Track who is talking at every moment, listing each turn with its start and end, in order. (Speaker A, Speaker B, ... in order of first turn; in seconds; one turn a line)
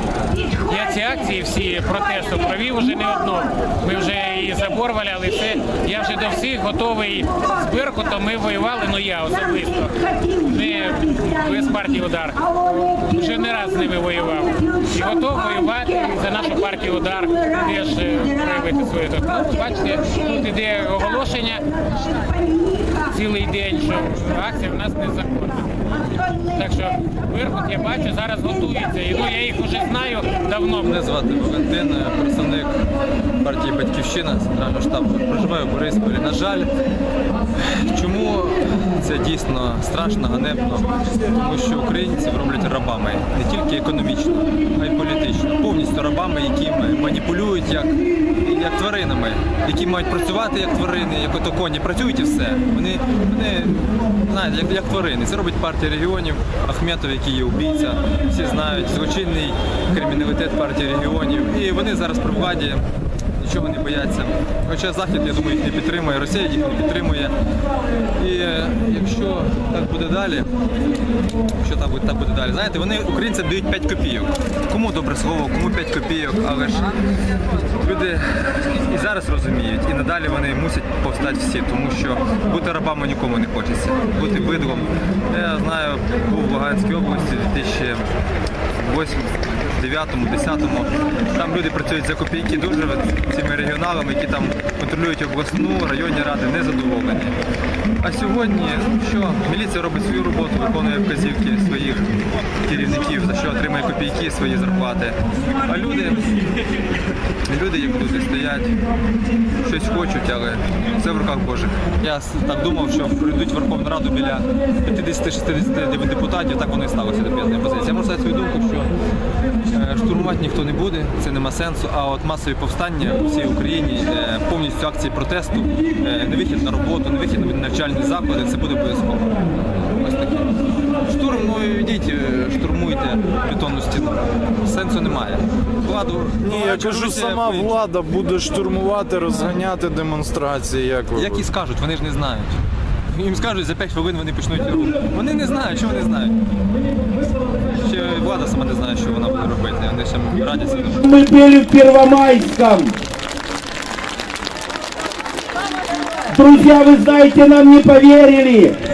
Speaker A: 0.4-25.7
Speaker B: 26.0-26.4
Speaker A: 26.4-30.9
Speaker B: 30.7-32.8
Speaker B: 33.4-36.7
Speaker B: 37.6-62.8
Speaker B: 63.4-67.3
Speaker B: 68.1-70.6
Speaker B: 71.6-77.0
Speaker B: 77.7-88.1
Speaker B: 88.8-97.3
Speaker B: 98.0-106.5
Speaker B: 107.5-108.8
Speaker B: 109.6-118.9
Speaker B: 119.7-137.8
Speaker C: 136.4-141.5
Speaker B: 141.1-142.5
Speaker B: 143.1-146.4
Speaker B: 147.7-151.0
Speaker D: 150.9-152.9
Speaker D: 156.3-158.8